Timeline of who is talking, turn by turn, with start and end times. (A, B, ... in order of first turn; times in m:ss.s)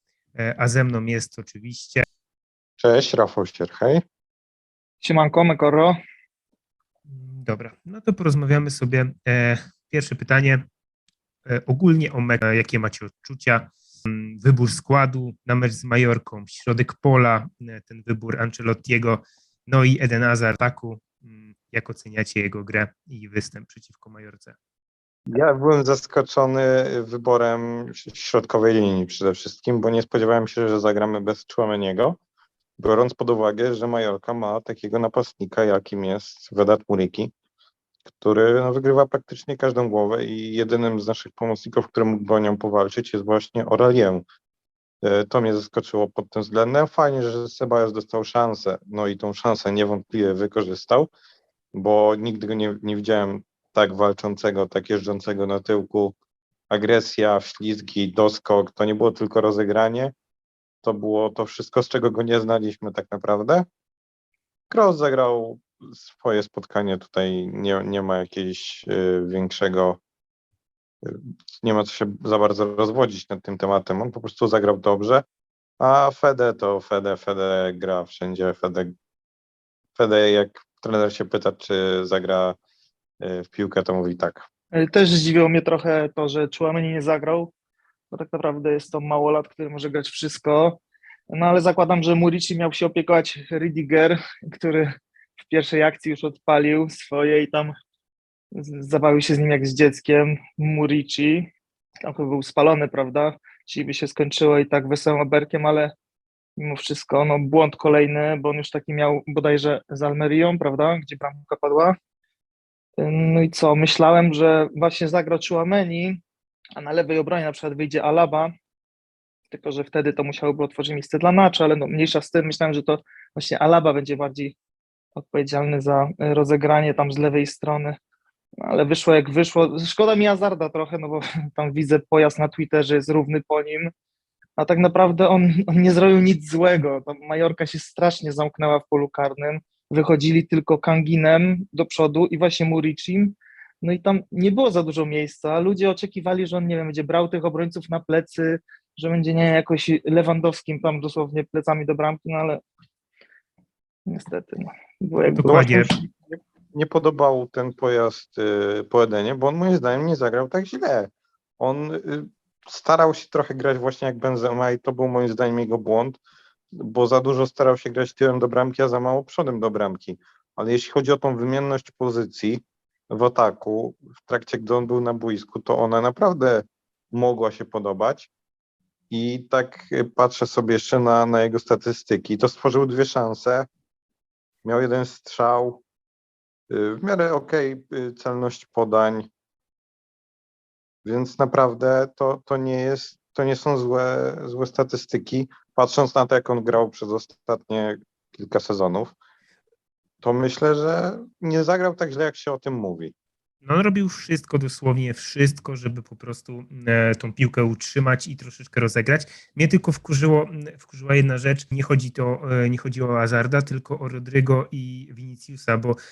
0:00.4-0:02.0 A
0:02.8-0:04.0 B
0:05.0-0:06.0 C
0:07.1-0:10.6 A
0:11.5-0:24.6 A
0:25.3-0:32.2 B
0:32.8-0:37.3 B
0:38.1-0:44.2 B
0:45.0-0:51.1 B
0:51.7-0:56.2 B
0:56.7-1:00.2 B
1:00.8-1:03.7 B
1:04.7-1:10.0 B
1:11.0-1:15.2 B
1:15.8-1:18.9 B
1:20.0-1:22.6 B
1:23.2-1:24.5 B
1:24.7-1:27.5 C
1:28.1-1:30.8 C
1:31.3-1:37.7 C
1:38.5-1:41.5 C
1:42.1-1:45.9 C
1:46.6-1:52.0 C
1:53.0-1:56.2 C
1:56.8-1:58.5 C
1:59.5-2:04.6 C
2:05.2-2:08.0 C
2:08.6-2:13.9 C
2:14.6-2:32.6 C
2:34.1-2:36.0 C
2:35.2-2:35.9 A
2:35.4-2:46.2 B
2:46.7-2:58.3 B
2:59.1-3:03.7 B
3:04.6-3:05.8 B
3:06.7-3:09.3 B
3:11.0-3:19.2 B
3:20.2-3:23.1 B
3:23.6-3:36.0 A